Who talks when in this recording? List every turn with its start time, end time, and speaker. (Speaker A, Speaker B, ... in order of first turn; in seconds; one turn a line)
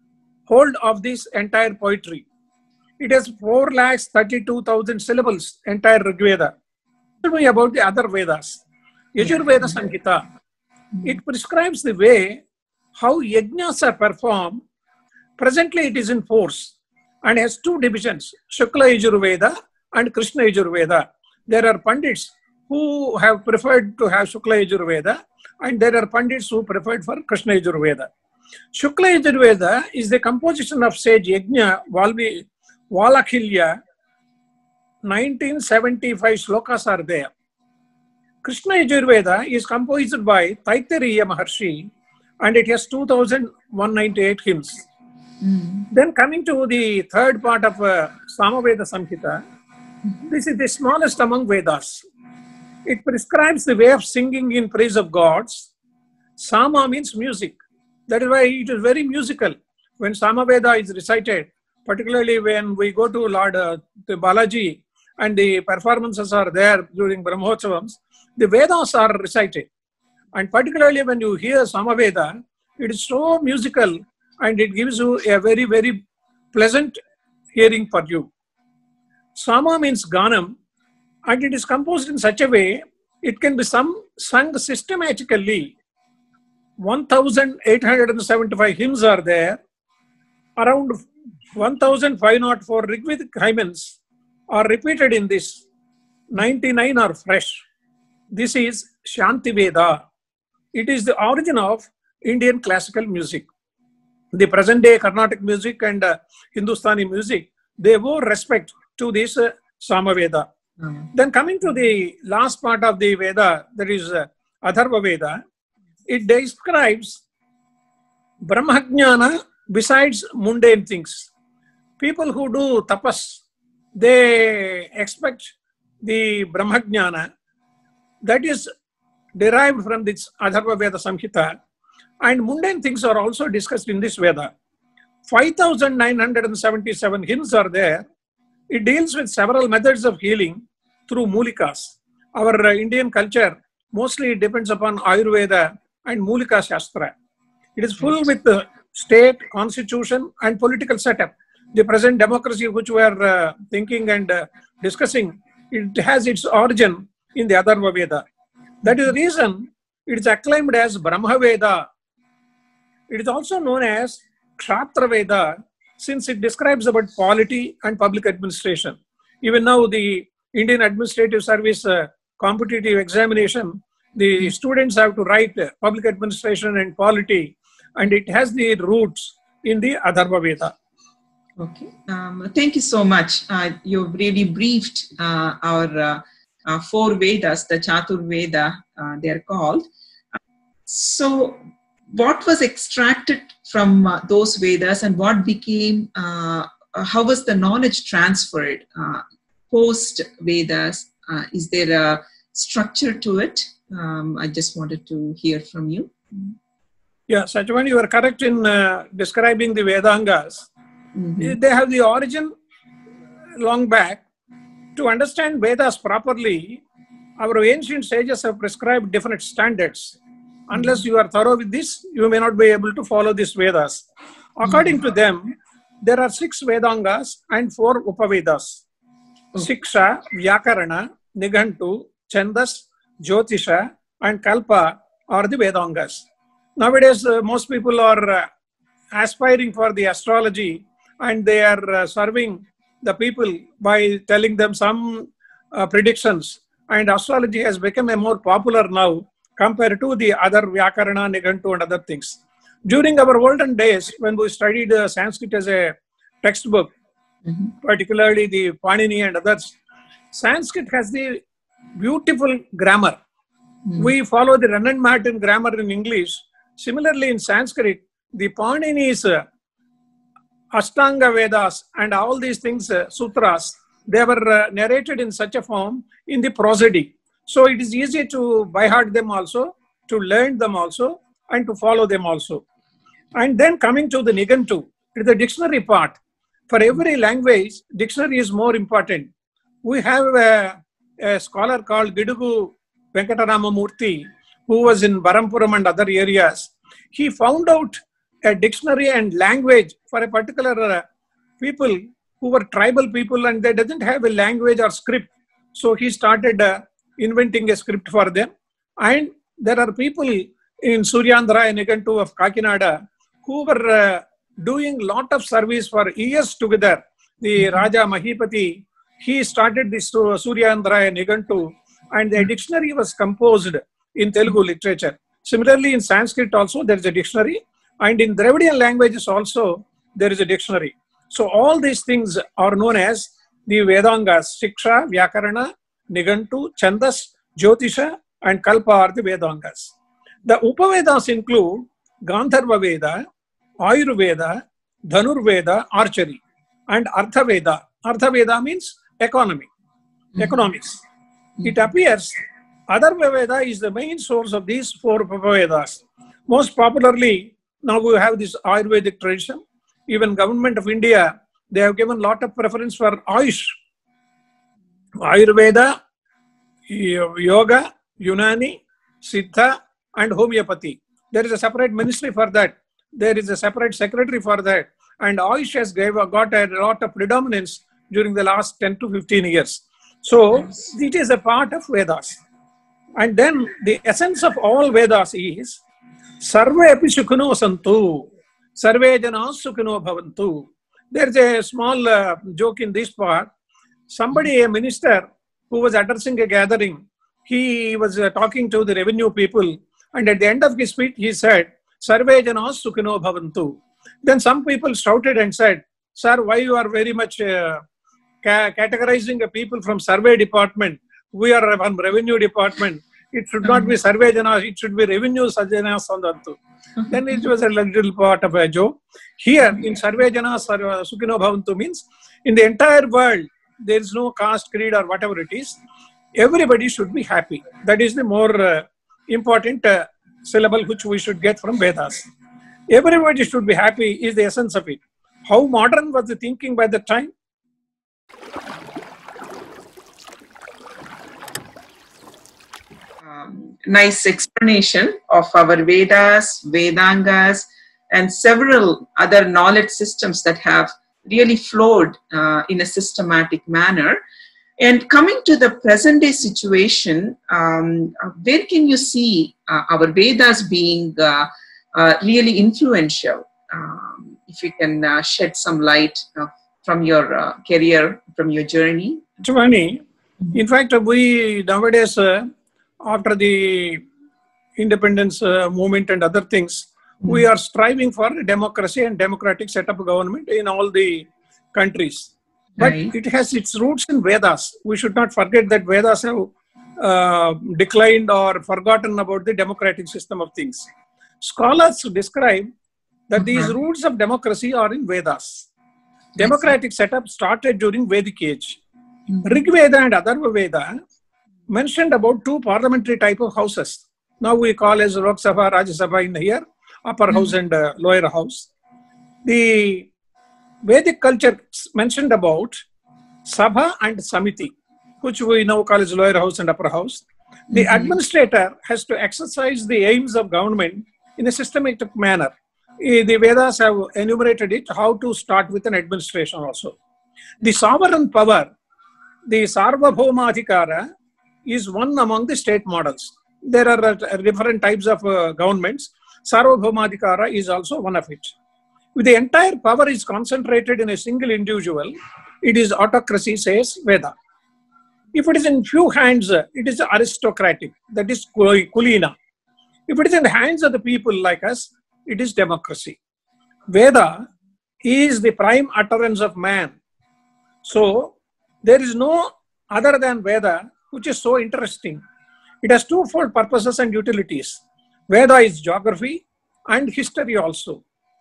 Speaker A: 0.5-2.2
Speaker A: 3.0-6.5
Speaker A: 7.2-8.6
Speaker A: 9.2-10.2
Speaker B: 9.2-9.8
Speaker A: 11.0-12.4
Speaker A: 13.0-14.6
Speaker A: 15.4-16.7
Speaker A: 17.2-28.1
Speaker A: 28.7-33.8
Speaker A: 35.1-37.3
Speaker A: 38.4-41.9
Speaker A: 42.4-44.8
Speaker B: 45.4-45.9
Speaker A: 45.9-49.4
Speaker A: 50.3-52.0
Speaker A: 52.9-55.7
Speaker A: 56.4-57.6
Speaker A: 58.1-69.7
Speaker A: 70.3-76.0
Speaker A: 76.5-77.0
Speaker A: 77.5-78.3
Speaker A: 79.4-80.5
Speaker A: 81.3-85.8
Speaker A: 86.8-89.6
Speaker A: 90.6-91.0
Speaker A: 91.6-94.0
Speaker A: 94.5-95.6
Speaker A: 96.3-97.6
Speaker A: 98.3-100.0
Speaker A: 100.7-103.5
Speaker A: 104.3-110.5
Speaker A: 111.1-115.4
Speaker A: 116.1-117.2
Speaker A: 118.5-121.3
Speaker A: 122.0-123.4
Speaker A: 124.0-125.5
Speaker A: 126.0-127.3
Speaker A: 128.2-128.7
Speaker A: 129.4-131.6
Speaker A: 132.2-134.5
Speaker A: 135.3-138.1
Speaker A: 138.7-140.6
Speaker A: 141.1-147.1
Speaker A: 147.8-158.2
Speaker A: 158.8-161.8
Speaker A: 163.1-180.7
Speaker B: 181.6-189.9
Speaker B: 190.9-206.5
Speaker A: 207.3-210.7
Speaker B: 211.2-211.6
Speaker A: 211.4-212.5
Speaker A: 213.6-214.2
Speaker A: 215.0-216.8
Speaker A: 217.4-220.2
Speaker A: 220.7-224.1
Speaker B: 220.8-221.0
Speaker A: 224.6-228.8
Speaker B: 224.7-225.0
Speaker A: 229.6-236.3
Speaker A: 236.8-238.5
Speaker A: 239.2-256.9
Speaker B: 257.5-257.7
Speaker A: 257.8-259.8
Speaker A: 260.3-261.4
Speaker A: 262.0-263.2
Speaker A: 264.0-269.4
Speaker A: 270.8-282.6
Speaker A: 283.4-289.3
Speaker A: 289.8-301.0
Speaker A: 301.6-308.5
Speaker A: 309.0-312.9
Speaker A: 313.4-339.9
Speaker B: 317.6-317.9
Speaker A: 340.4-343.2
Speaker A: 343.8-349.7
Speaker A: 350.4-351.0
Speaker A: 351.6-363.7
Speaker A: 365.2-365.9
Speaker A: 366.9-382.4
Speaker A: 383.2-385.8
Speaker A: 386.4-393.5
Speaker A: 394.1-407.8
Speaker A: 408.4-425.8
Speaker A: 426.4-432.3
Speaker A: 432.9-437.3
Speaker B: 443.2-454.2
Speaker B: 454.8-469.3
Speaker A: 469.4-470.0
Speaker A: 470.5-472.5
Speaker A: 473.1-474.0
Speaker A: 474.8-490.9
Speaker B: 482.8-483.1
Speaker A: 491.4-492.7
Speaker A: 493.3-495.7
Speaker B: 493.4-493.7
Speaker A: 496.4-498.8
Speaker B: 496.4-496.7
Speaker B: 499.3-499.6
Speaker A: 499.4-501.0
Speaker A: 501.7-508.7
Speaker A: 509.4-510.1
Speaker A: 510.9-512.8
Speaker A: 513.5-527.0
Speaker B: 517.7-518.1
Speaker A: 527.6-528.7
Speaker A: 529.5-531.0
Speaker A: 531.7-538.5
Speaker A: 539.2-542.1
Speaker A: 542.6-544.3
Speaker A: 545.3-549.3
Speaker A: 550.1-553.2
Speaker A: 553.9-554.5
Speaker A: 555.0-556.9
Speaker A: 557.8-562.2
Speaker A: 562.8-568.0